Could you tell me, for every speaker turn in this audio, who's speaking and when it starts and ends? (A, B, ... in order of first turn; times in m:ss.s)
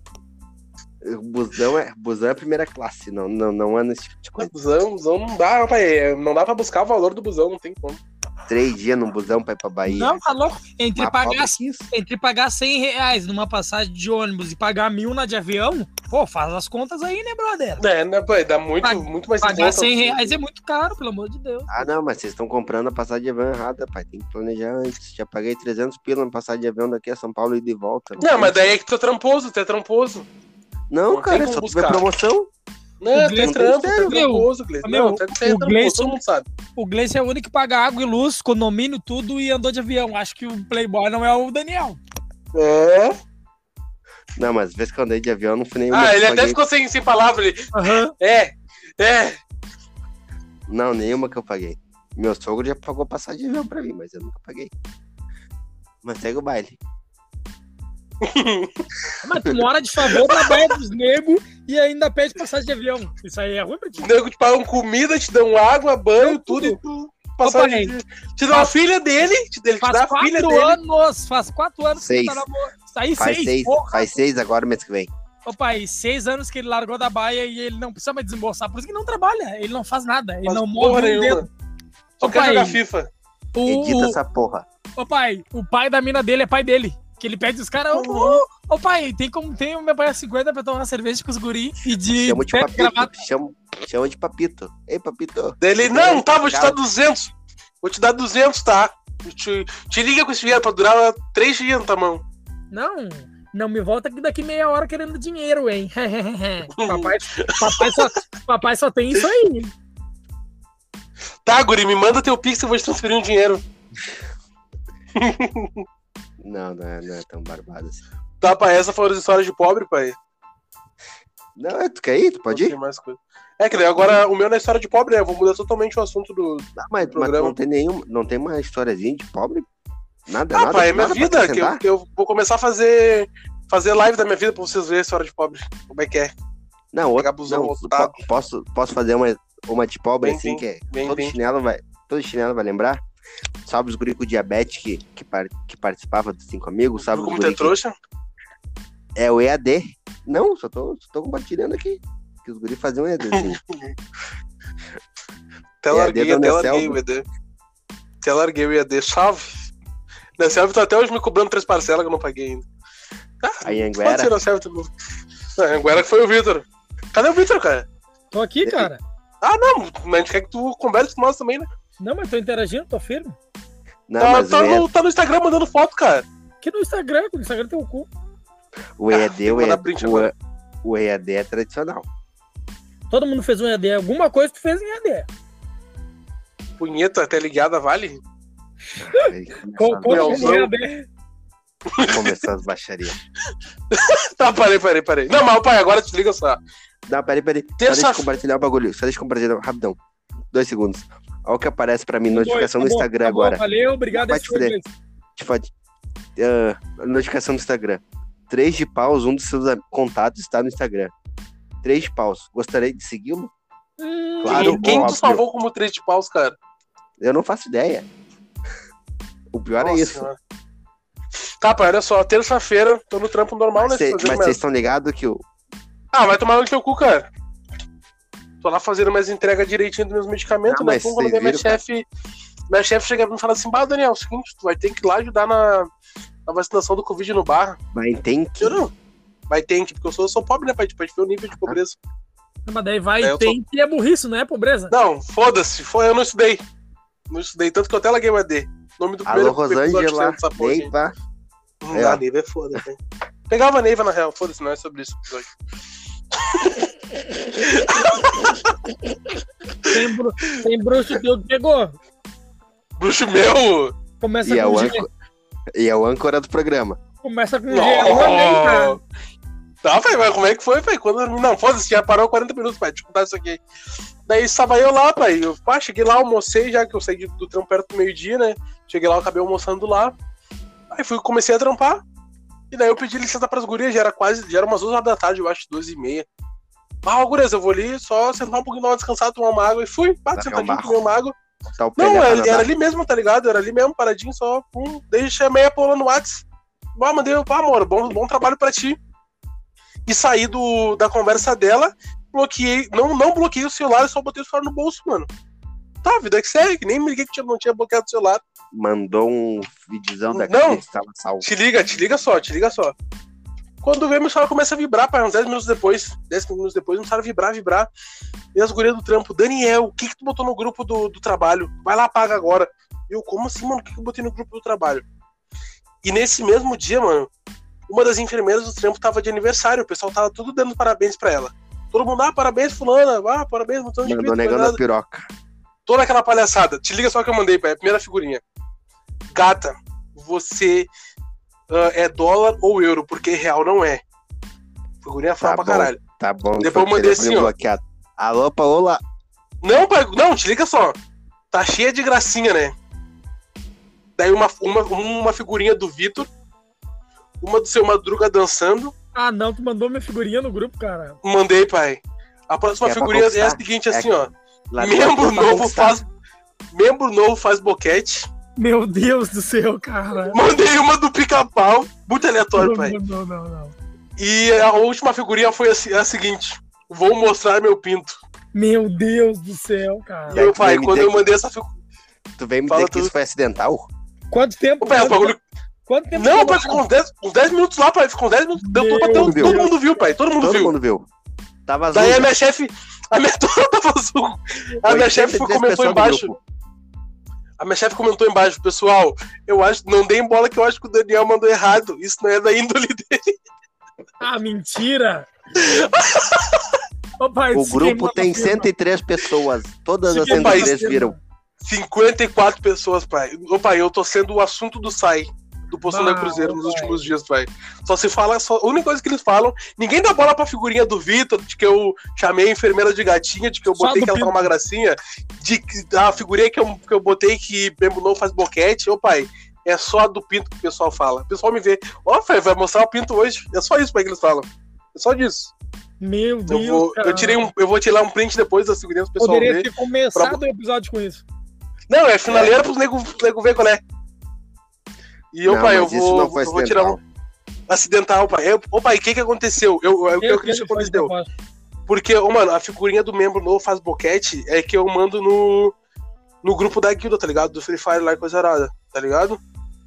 0:01.0-0:04.5 A
0:04.4-0:08.0 B
0:08.5-0:10.2 A
0:09.9-0:17.8 C
0:11.0-0:11.9 A
0:17.8-0:20.4 B
0:18.8-0:21.7 C
0:21.7-0:28.8 A
0:28.2-0:30.2 B
0:30.9-0:32.5 A
0:31.1-0:32.0 B
0:33.0-0:36.5 B
0:33.1-0:36.2 C
0:33.4-0:34.1 A
0:36.8-0:42.0 C
0:42.5-0:43.2 B
0:44.4-0:46.6 A
0:45.9-0:49.4 B
0:47.7-0:48.1 C
0:50.7-0:54.7 A
0:56.0-0:56.8 A
0:58.2-0:58.8 B
0:59.2-1:04.1 C
1:00.1-1:00.7 B
1:04.0-1:10.8 B
1:06.2-1:06.8 C
1:07.4-1:07.9 C
1:09.8-1:14.1 C
1:12.0-1:12.4 A
1:13.2-1:15.1 A
1:15.5-1:21.5 C
1:20.5-1:21.5 B
1:22.2-1:23.1 B
1:22.2-1:22.8 C
1:23.6-1:24.2 C
1:23.6-1:24.6 A
1:25.0-1:33.1 C
1:27.9-1:28.4 B
1:32.2-1:36.8 A
1:35.6-1:42.2 B
1:42.7-1:49.7 C
1:46.8-1:48.2 B
1:51.4-1:53.6 B
1:55.2-1:55.8 B
1:56.4-1:58.0 A
1:58.4-2:00.2 B
2:01.6-2:02.8 A
2:02.5-2:07.6 B
2:06.8-2:09.6 A
2:10.3-2:11.8 A
2:10.5-2:16.3 B
2:16.9-2:23.0 A
2:17.2-2:18.2 B
2:20.2-2:21.4 B
2:23.6-2:27.8 A
2:27.0-2:27.9 B
2:29.2-2:33.6 A
2:33.3-2:33.9 B
2:35.8-2:37.2 B
2:35.9-2:37.0 A
2:38.2-2:39.7 B
2:40.4-2:42.6 B
2:43.4-2:44.9 B
2:43.6-2:44.3 A
2:45.6-2:47.9 B
2:48.3-2:49.0 C
2:48.6-2:48.9 A
2:49.4-2:51.7 B
2:52.0-2:53.4 C
2:54.1-2:54.9 A
2:54.2-2:56.2 B
2:56.6-2:58.1 C
2:59.0-3:00.3 A
2:59.1-3:00.3 B
3:00.8-3:02.1 A
3:03.1-3:05.3 C
3:06.8-3:08.2 B
3:09.0-3:10.6 A
3:09.1-3:11.1 C
3:10.1-3:10.7 B
3:11.9-3:12.4 B
3:12.0-3:13.2 A
3:13.9-3:16.6 B
3:17.1-3:20.0 A
3:17.8-3:18.3 B
3:20.5-3:24.8 A
3:22.3-3:24.9 C
3:25.4-3:25.7 A
3:26.4-3:31.1 A
3:31.8-3:33.5 A
3:34.0-3:35.2 C
3:34.4-3:35.4 A
3:34.4-3:36.6 B
3:37.2-3:38.1 A
3:39.5-3:40.3 A
3:39.8-3:40.4 B
3:41.6-3:44.6 B
3:43.8-3:45.4 A
3:46.1-3:47.3 B
3:48.6-3:52.1 B
3:50.6-3:51.8 A
3:52.7-3:55.9 B
3:56.5-3:57.8 B
3:57.9-3:58.8 A
3:58.6-3:58.9 B
3:59.5-4:02.0 B
4:02.7-4:04.9 C
4:03.2-4:03.6 B
4:04.9-4:06.6 B
4:07.3-4:10.9 B
4:09.2-4:11.1 A
4:11.8-4:13.0 B
4:11.9-4:12.2 A
4:13.5-4:15.5 B
4:16.3-4:18.8 B
4:19.9-4:22.0 C
4:23.0-4:23.9 B
4:24.2-4:25.1 C
4:24.4-4:25.1 A
4:25.8-4:27.0 A
4:27.2-4:29.0 C
4:27.7-4:29.0 B
4:29.8-4:33.6 B
4:34.2-4:40.2 B
4:40.9-4:42.0 B
4:42.7-4:46.2 B
4:47.0-4:51.4 B
4:50.4-4:51.0 A
4:51.7-4:52.7 A
4:52.0-4:56.4 B
4:57.0-4:59.0 B
5:00.1-5:05.3 B
5:06.0-5:08.4 B
5:08.7-5:11.5 A
5:10.4-5:10.8 B
5:11.4-5:12.9 B
5:13.8-5:17.9 B
5:18.6-5:25.0 B
5:26.0-5:27.3 B
5:27.9-5:34.8 B
5:34.0-5:35.3 A
5:35.9-5:38.4 B
5:39.3-5:40.9 B
5:41.7-5:44.0 B
5:45.0-5:46.0 B
5:45.4-5:49.0 A
5:46.6-5:47.5 B
5:49.6-5:51.0 B
5:51.5-5:52.7 B
5:54.2-5:56.3 B
5:57.4-5:58.9 B
5:59.2-6:01.2 C
6:01.2-6:06.0 B
6:02.8-6:04.2 A
6:04.7-6:06.0 A
6:06.7-6:08.3 B
6:08.6-6:10.4 C
6:10.3-6:13.0 B
6:12.6-6:13.8 C
6:14.2-6:18.2 B
6:18.5-6:20.5 C
6:20.3-6:21.7 B
6:20.3-6:21.2 A
6:22.4-6:23.9 A
6:22.7-6:23.1 B
6:24.3-6:25.3 C
6:24.8-6:25.4 B
6:25.9-6:26.8 C
6:26.1-6:30.7 B
6:28.6-6:29.7 C
6:29.2-6:29.6 A
6:30.4-6:31.1 A
6:31.7-6:32.3 A
6:31.9-6:36.3 B
6:34.8-6:36.4 A
6:37.6-6:43.4 B
6:44.2-6:45.3 C
6:45.6-6:46.7 B
6:47.2-6:48.7 C
6:47.5-6:51.2 A
6:50.1-6:51.2 C
6:50.2-6:51.0 B
6:51.6-7:15.5 B
6:55.9-6:57.0 C
7:03.8-7:04.5 C
7:16.0-7:17.5 C
7:16.5-7:20.4 B
7:19.2-7:21.2 C
7:21.9-7:23.8 B
7:22.3-7:22.6 A
7:25.3-7:27.0 B
7:25.5-7:27.0 A
7:27.7-7:31.1 B
7:30.2-7:31.3 C
7:31.9-7:35.8 B
7:36.4-7:39.4 B